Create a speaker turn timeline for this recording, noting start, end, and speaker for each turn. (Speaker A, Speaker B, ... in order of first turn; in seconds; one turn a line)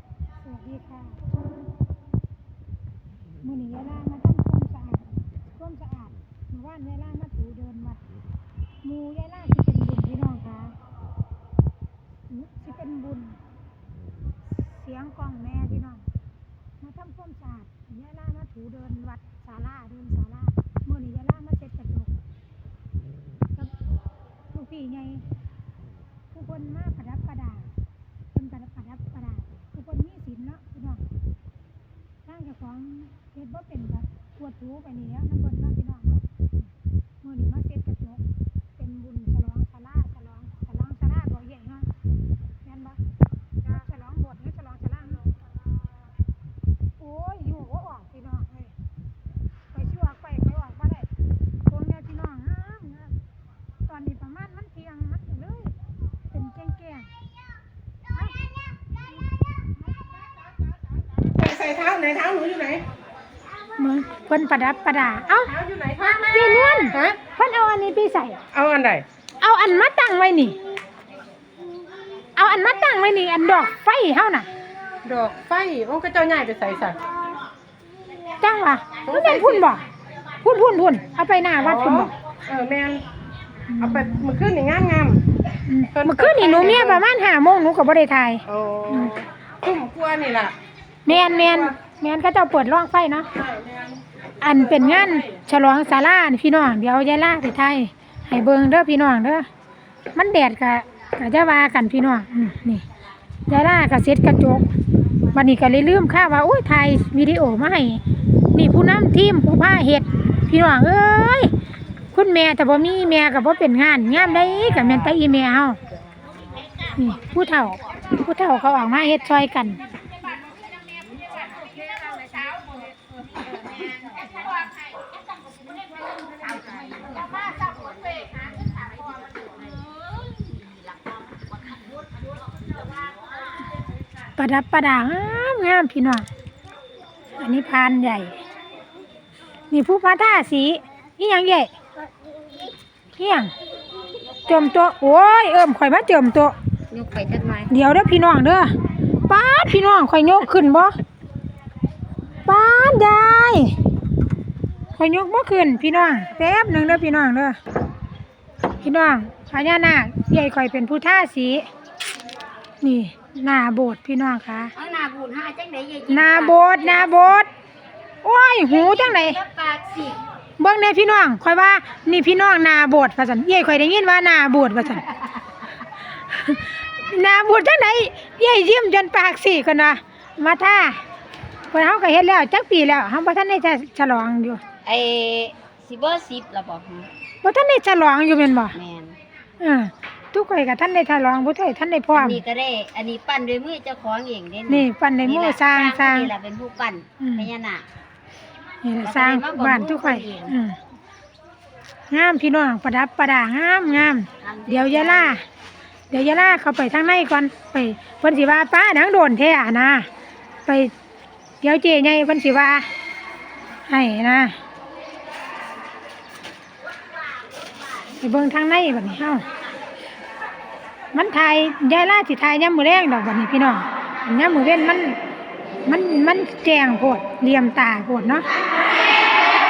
Speaker A: 0.4-1.2
Speaker A: 3.4-8.0
Speaker A: 8.8-10.8
Speaker A: 12.3-13.4
Speaker A: 14.5-16.1
Speaker A: 16.8-22.2
Speaker A: 24.5-25.3
Speaker A: 26.3-27.7
Speaker A: 28.3-31.0
Speaker A: 32.2-36.3
Speaker A: 37.2-41.9
Speaker A: 42.6-43.0
Speaker A: 43.6-45.3
Speaker A: 47.0-48.8
Speaker A: 49.7-51.1
Speaker A: 51.7-53.2
Speaker A: 53.8-55.8
Speaker A: 56.3-57.1
Speaker A: 58.1-58.5
Speaker B: 61.3-62.8
Speaker A: 63.8-65.6
Speaker B: 65.5-67.2
Speaker A: 66.1-68.4
Speaker B: 68.5-69.0
Speaker A: 69.4-70.6
Speaker A: 72.3-74.5
Speaker B: 75.0-77.1
Speaker A: 78.4-79.8
Speaker B: 79.0-79.7
Speaker A: 80.4-82.1
Speaker B: 81.6-83.1
Speaker A: 83.7-84.2
Speaker B: 83.8-85.2
Speaker A: 85.7-89.1
Speaker B: 85.9-87.0
Speaker B: 88.5-90.6
Speaker A: 91.0-93.3
Speaker B: 93.4-94.0
Speaker A: 94.4-99.5
Speaker A: 100.1-102.8
Speaker A: 103.5-104.7
Speaker A: 105.3-108.0
Speaker A: 108.5-111.5
Speaker A: 112.1-115.8
Speaker A: 116.9-119.8
Speaker C: 121.3-122.6
Speaker C: 123.8-124.1
Speaker C: 126.6-129.8
Speaker A: 134.4-136.3
Speaker A: 137.4-138.4
Speaker A: 139.7-141.7
Speaker A: 143.2-143.5
Speaker A: 144.4-146.6
Speaker C: 146.9-147.8
Speaker A: 147.7-148.7
Speaker A: 149.3-150.9
Speaker A: 152.4-153.8
Speaker A: 154.9-157.6
Speaker A: 158.8-161.7
Speaker A: 162.8-164.7
Speaker C: 164.7-167.4
Speaker A: 166.1-167.5
Speaker A: 168.2-169.4
Speaker C: 168.7-170.2
Speaker A: 170.6-175.1
Speaker A: 176.1-181.0
Speaker A: 181.7-184.6
Speaker C: 184.8-187.1
Speaker A: 187.4-188.8
Speaker C: 188.7-189.2
Speaker A: 189.6-192.4
Speaker C: 192.1-197.8
Speaker A: 194.7-196.3
Speaker A: 197.2-197.5
Speaker A: 198.8-200.8
Speaker C: 199.0-200.6
Speaker A: 202.1-205.4
Speaker C: 204.4-205.4
Speaker A: 206.1-210.1
Speaker A: 210.7-210.9
Speaker A: 211.6-212.9
Speaker A: 213.9-214.6
Speaker A: 218.2-219.4
Speaker A: 221.1-225.2
Speaker A: 225.8-228.5